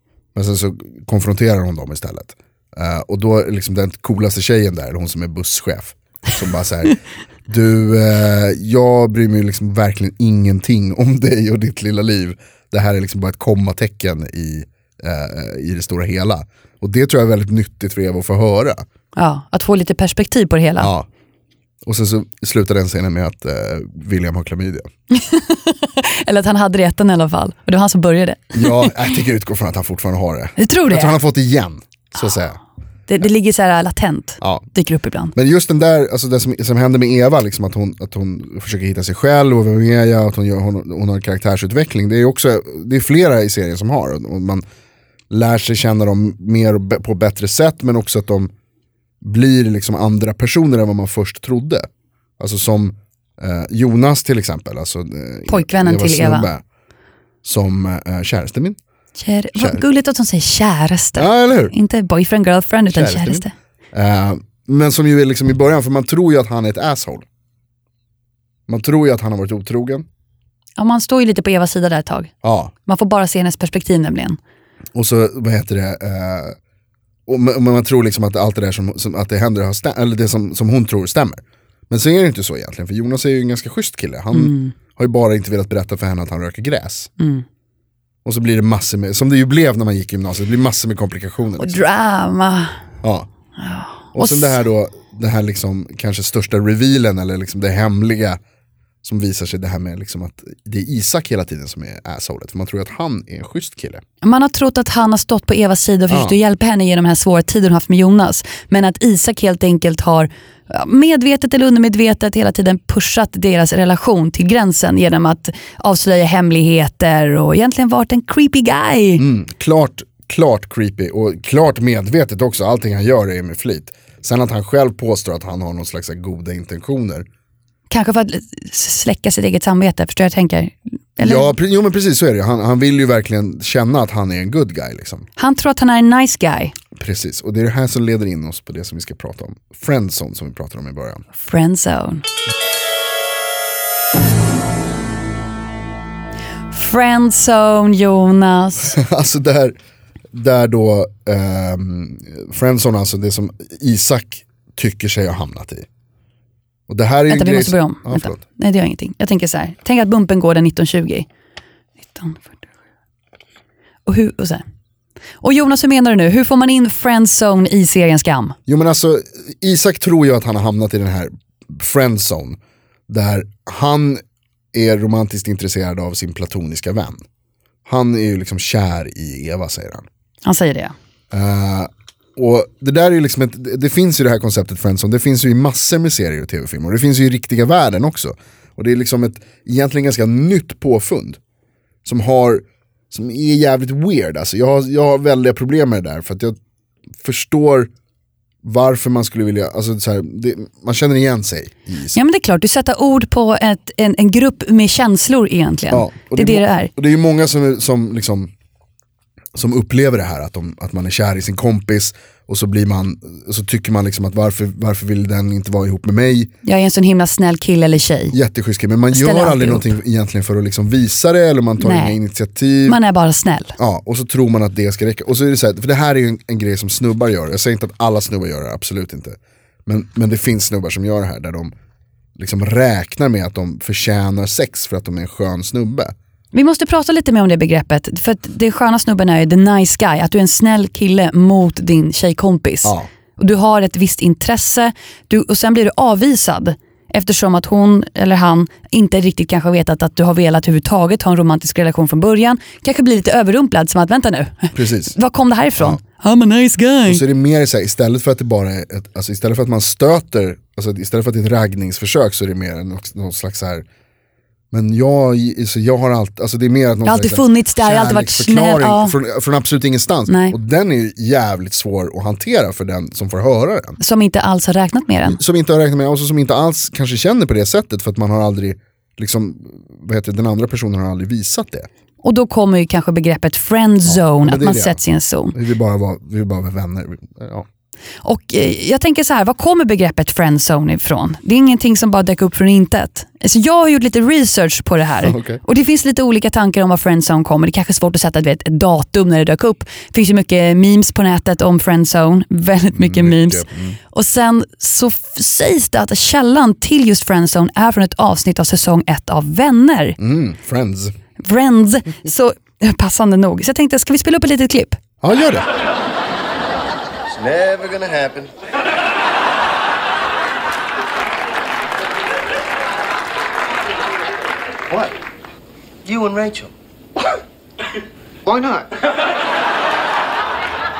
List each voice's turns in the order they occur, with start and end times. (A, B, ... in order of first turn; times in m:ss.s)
0:00.3-0:18.8 A
0:19.2-0:20.9 B
0:20.8-0:21.1 A
0:21.8-0:24.9 A
0:25.1-0:28.9 B
0:28.5-0:32.6 A
0:30.6-0:31.1 B
0:33.1-0:35.3 B
0:34.4-0:34.6 A
0:35.3-0:44.6 A
0:45.3-0:48.5 A
0:49.2-0:51.9 A
0:52.4-0:56.6 A
0:55.5-0:56.5 B
0:57.4-0:58.8 A
0:59.2-1:03.5 B
0:59.6-0:59.8 A
1:01.2-1:01.7 A
1:02.9-1:07.2 A
1:08.7-1:10.0 A
1:10.8-1:12.3 B
1:12.4-1:12.7 A
1:12.8-1:14.4 B
1:14.9-1:16.6 A
1:17.3-1:27.1 A
1:24.3-1:24.7 B
1:27.2-1:27.4 B
1:28.2-1:31.8 A
1:31.6-1:32.7 B
1:33.0-1:33.3 A
1:33.6-1:34.6 B
1:34.1-1:38.4 A
1:39.0-1:44.0 A
1:44.2-1:59.2 B
1:46.1-1:46.4 A
1:59.2-2:07.2 A
2:07.9-2:11.5 B
2:11.2-2:15.2 A
2:15.4-2:16.7 B
2:17.0-2:21.2 A
2:21.3-2:22.2 B
2:26.7-2:29.0 B
2:28.8-2:29.8 A
2:30.3-2:35.8 A
2:36.9-2:38.4 A
2:37.3-2:41.3 B
2:42.0-2:42.6 B
2:44.0-2:44.6 B
2:45.4-2:48.6 B
2:48.7-2:52.6 A
2:53.1-2:54.2 A
2:54.7-2:57.2 A
2:57.8-3:00.0 A
3:00.4-3:00.9 B
3:01.3-3:11.4 A
3:12.0-3:16.6 A
3:17.2-3:17.9 A
3:18.6-3:22.2 A
3:22.1-3:26.9 B
3:25.9-3:28.5 A
3:29.5-3:36.5 A
3:36.6-3:38.4 B
3:38.3-3:43.0 A
3:39.1-3:39.9 B
3:41.8-3:42.2 B
3:42.9-3:43.7 B
3:43.8-3:51.7 A
3:52.4-3:56.1 A
3:56.5-4:17.2 B
4:14.7-4:15.1 A
4:17.1-4:23.8 A
4:24.7-4:34.0 A
4:27.0-4:29.2 B
4:30.3-4:30.5 B
4:34.0-4:35.4 B
4:35.2-4:41.9 A
4:42.2-4:45.6 B
4:44.1-4:45.0 A
4:45.5-4:47.7 A
4:48.2-5:10.2 B
4:55.2-4:55.6 A
5:02.9-5:04.0 A
5:10.2-5:11.1 A
5:11.4-5:15.0 B
5:15.2-5:15.7 A
5:17.3-5:18.5 C
5:24.9-5:25.1 C
5:26.0-5:26.7 C
5:28.4-5:29.0 C